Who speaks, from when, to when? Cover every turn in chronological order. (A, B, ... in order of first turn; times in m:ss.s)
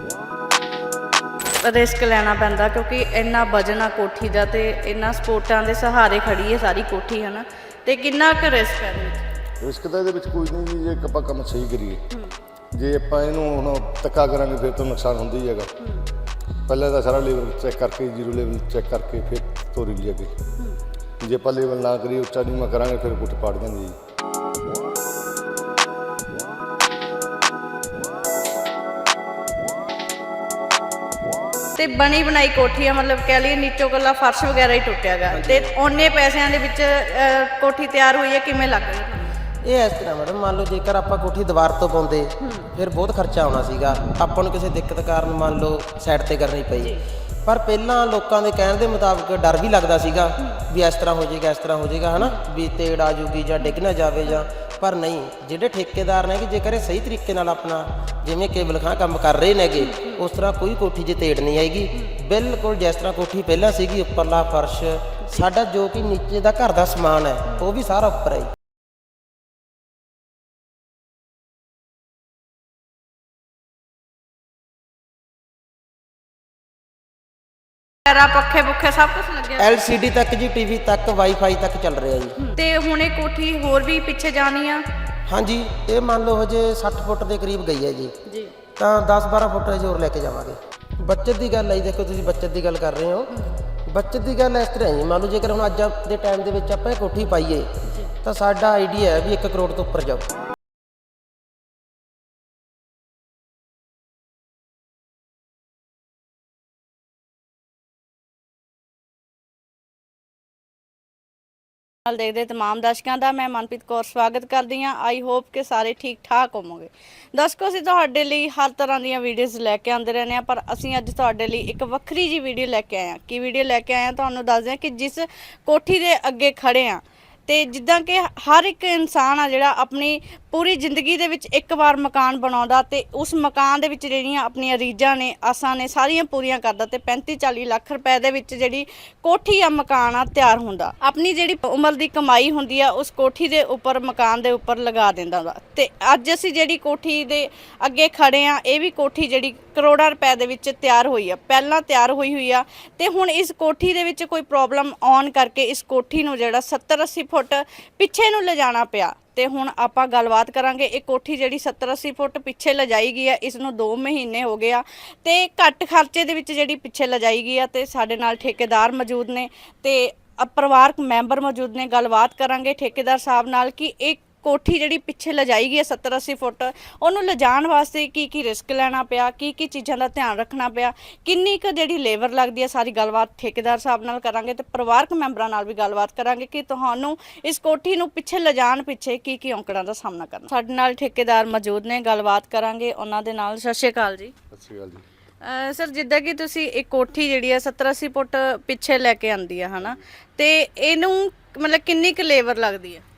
0:01.6-0:09.2 A
0:09.6-0:12.0 B
0:12.7-0:15.7 B
0:15.8-0:16.0 A
0:16.7-0:20.3 B
0:21.2-0:23.9 B
0:31.8-0:39.3 A
0:35.3-0:35.7 C
0:39.6-1:08.5 C
0:42.4-0:42.7 A
0:59.8-1:00.2 A
1:18.1-1:19.7 A
1:19.6-1:22.4 C
1:22.4-1:24.8 A
1:25.3-1:28.1 C
1:28.2-1:28.5 A
1:28.8-1:33.3 C
1:33.9-1:37.7 C
1:37.9-1:38.1 A
1:38.2-1:40.3 C
1:52.1-3:14.3 A
3:14.5-3:15.0 B
3:15.4-3:23.0 A